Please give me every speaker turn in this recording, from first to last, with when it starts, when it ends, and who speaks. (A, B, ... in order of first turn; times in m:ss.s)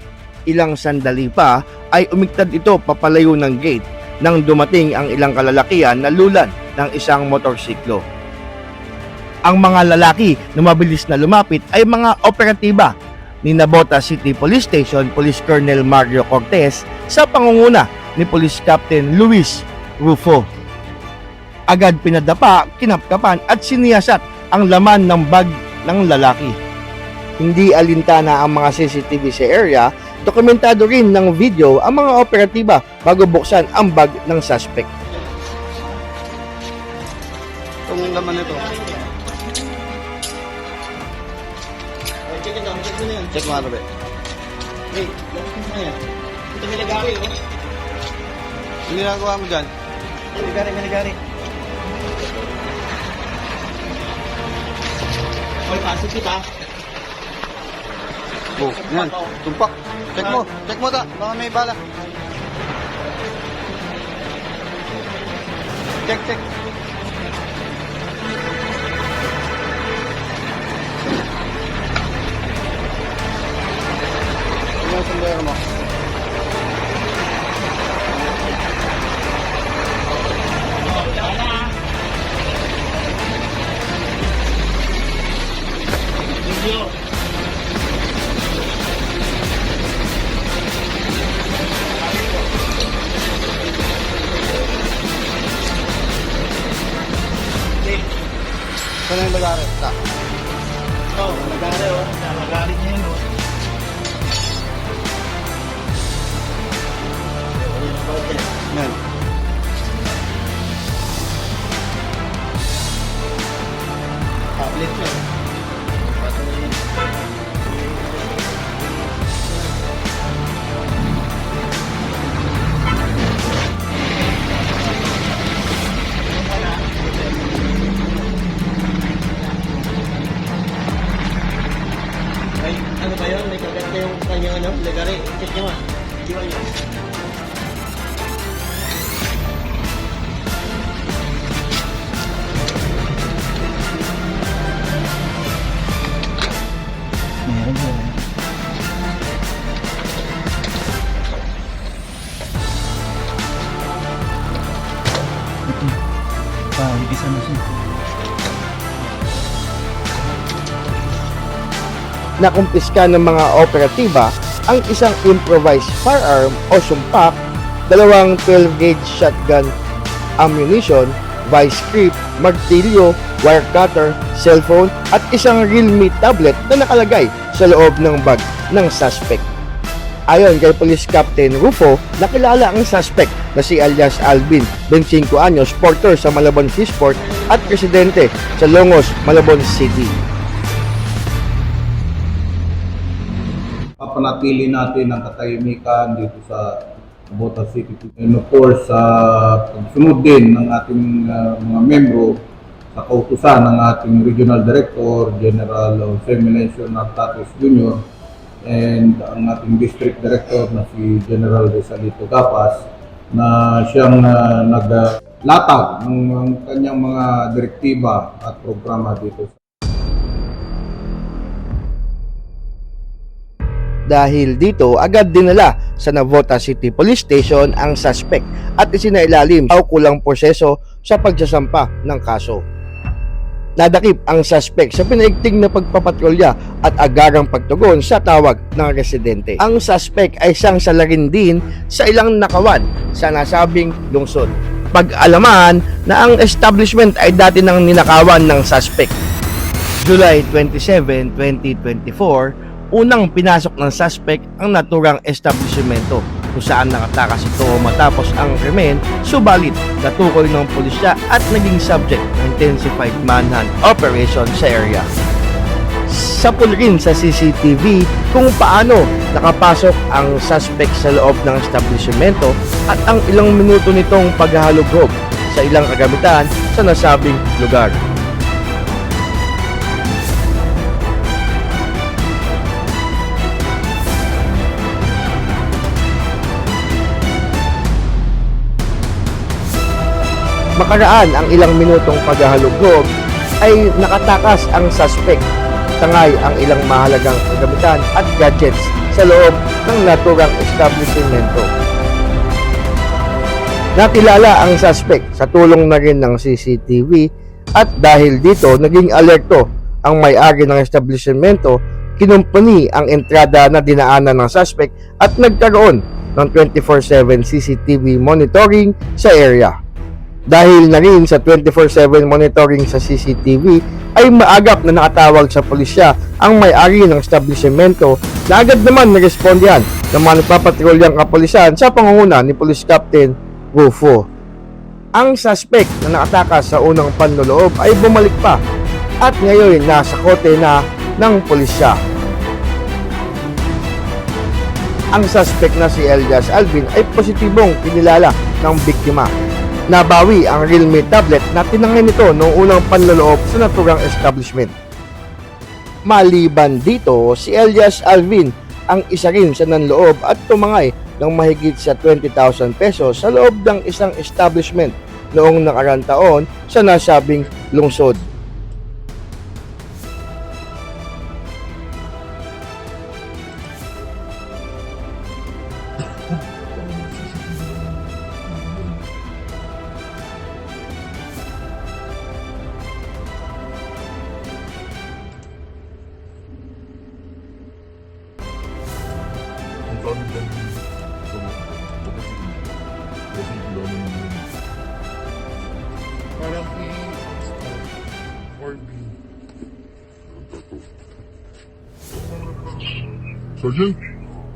0:00.5-0:08.0 A
0:09.5-0:12.9 A
0:13.4-0:20.4 A
0:21.7-0:26.6 A
0:27.4-0:34.9 A
0:37.9-0:38.7 B
0:42.3-0:43.2 C
0:43.3-0:43.9 B
0:45.0-0:45.9 C
0:46.5-0:47.2 C
0:48.9-0:49.7 B
0:50.4-0:50.9 C
0:55.7-0:56.4 C
0:58.6-1:01.8 B
1:06.0-1:06.4 B
1:14.8-1:15.6 B
1:21.1-1:21.4 C
1:39.1-1:40.0 B
1:41.2-1:43.2 C
1:47.7-1:48.5 C
1:48.7-1:49.0 B
1:54.6-1:55.2 C
1:56.2-1:56.8 C
2:06.4-2:07.1 C
2:12.8-2:16.6 C
2:27.4-2:28.3 C
2:35.7-2:36.0 C
2:36.8-2:37.7 C
2:42.4-2:47.4 A
2:47.9-2:49.7 A
2:50.4-2:59.4 A
3:00.3-3:10.2 A
3:14.0-3:22.3 D
3:22.9-3:28.0 D
3:28.6-3:32.8 D
3:33.3-3:39.5 D
3:44.1-3:52.6 A
3:53.8-4:09.1 A
4:10.0-4:25.1 A
4:26.1-4:38.0 A
4:50.8-4:53.1 A
4:53.6-4:55.4 A
4:56.0-5:01.7 A
5:04.0-5:07.2 A
5:07.8-5:19.7 A
5:20.5-5:34.2 A
5:35.2-5:38.6 A
5:39.2-5:42.0 A
5:45.1-5:49.3 A
5:49.9-5:54.7 A
5:56.1-6:08.2 A
6:16.8-6:17.8 E
6:29.9-6:32.6 E
6:33.3-6:34.5 E
6:36.4-6:37.7 E
6:38.6-6:39.1 E
6:43.6-6:44.0 E